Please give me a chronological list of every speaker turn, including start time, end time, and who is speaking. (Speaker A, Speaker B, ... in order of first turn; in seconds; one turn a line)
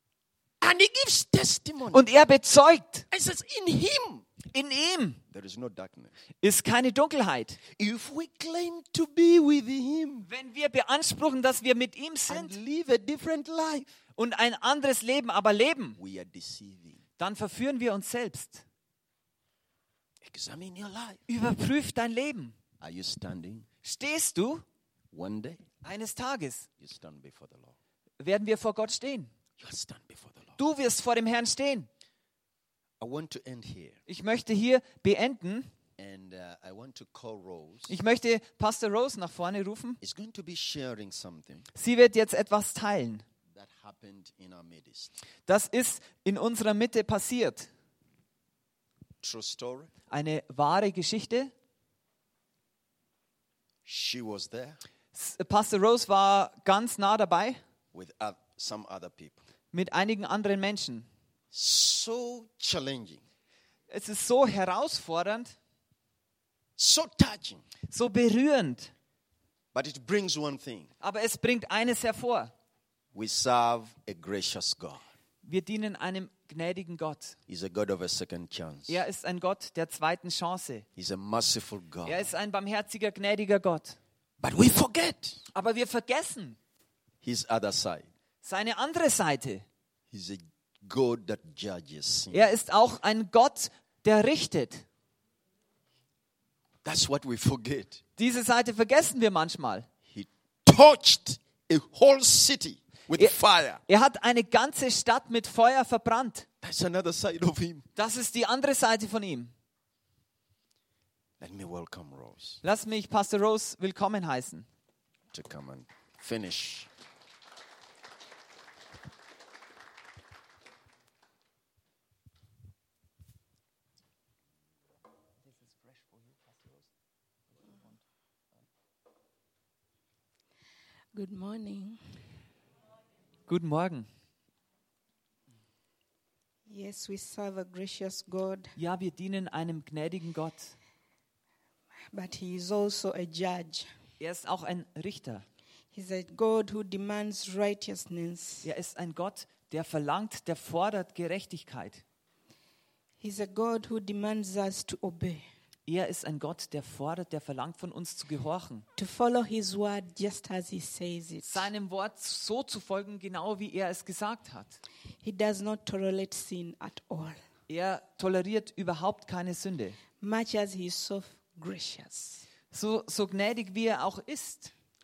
Speaker A: 0.6-2.1
Speaker B: 1.9-3.0
Speaker A: 3.1-4.2
Speaker B: 4.5-5.2
Speaker A: 5.3-6.1
Speaker B: 6.4-7.6
Speaker A: 7.8-10.3
Speaker B: 10.3-12.6
Speaker A: 12.3-13.9
Speaker B: 14.2-16.0
Speaker A: 16.0-17.0
Speaker B: 17.2-18.6
Speaker A: 20.2-21.2
Speaker B: 21.3-22.6
Speaker A: 22.8-23.7
Speaker B: 23.8-24.6
Speaker A: 25.1-25.6
Speaker B: 25.8-26.7
Speaker A: 26.8-27.8
Speaker B: 28.2-29.3
Speaker A: 29.6-30.6
Speaker B: 30.6-31.9
Speaker A: 33.0-34.0
Speaker B: 34.1-35.7
Speaker A: 36.0-37.9
Speaker B: 37.9-40.0
Speaker A: 40.0-41.6
Speaker B: 41.8-43.2
Speaker A: 43.5-45.1
Speaker B: 45.5-47.7
Speaker A: 49.2-49.9
Speaker B: 50.1-51.5
Speaker A: 53.9-54.8
Speaker B: 55.1-57.6
Speaker A: 57.9-59.4
Speaker B: 59.7-61.1
Speaker A: 61.5-63.2
Speaker B: 63.9-65.5
Speaker A: 66.8-67.6
Speaker B: 67.9-68.9
Speaker A: 69.7-70.9
Speaker B: 71.0-72.5
Speaker A: 73.1-75.0
Speaker B: 75.5-77.4
Speaker A: 77.5-79.0
Speaker B: 78.9-80.9
Speaker A: 81.0-82.3
Speaker B: 82.0-84.0
Speaker A: 84.4-85.4
Speaker B: 85.5-86.6
Speaker A: 87.2-88.1
Speaker B: 88.4-89.6
Speaker A: 90.1-92.5
Speaker B: 92.3-94.8
Speaker A: 96.8-98.0
Speaker B: 98.2-99.9
Speaker A: 100.1-103.8
Speaker B: 103.2-106.5
Speaker A: 106.6-107.8
Speaker B: 108.0-109.5
Speaker A: 111.4-112.6
Speaker B: 112.6-114.7
Speaker A: 115.3-116.9
Speaker C: 131.1-132.0
Speaker B: 133.5-134.1
Speaker C: 136.7-138.7
Speaker B: 138.8-140.7
Speaker C: 142.1-143.9
Speaker B: 144.2-145.4
Speaker C: 145.9-148.7
Speaker B: 148.6-152.0
Speaker C: 153.2-155.4
Speaker B: 155.9-158.8
Speaker C: 159.0-161.7
Speaker B: 161.4-164.8
Speaker C: 165.2-167.4
Speaker B: 167.7-170.0
Speaker C: 170.2-172.4
Speaker B: 172.7-174.7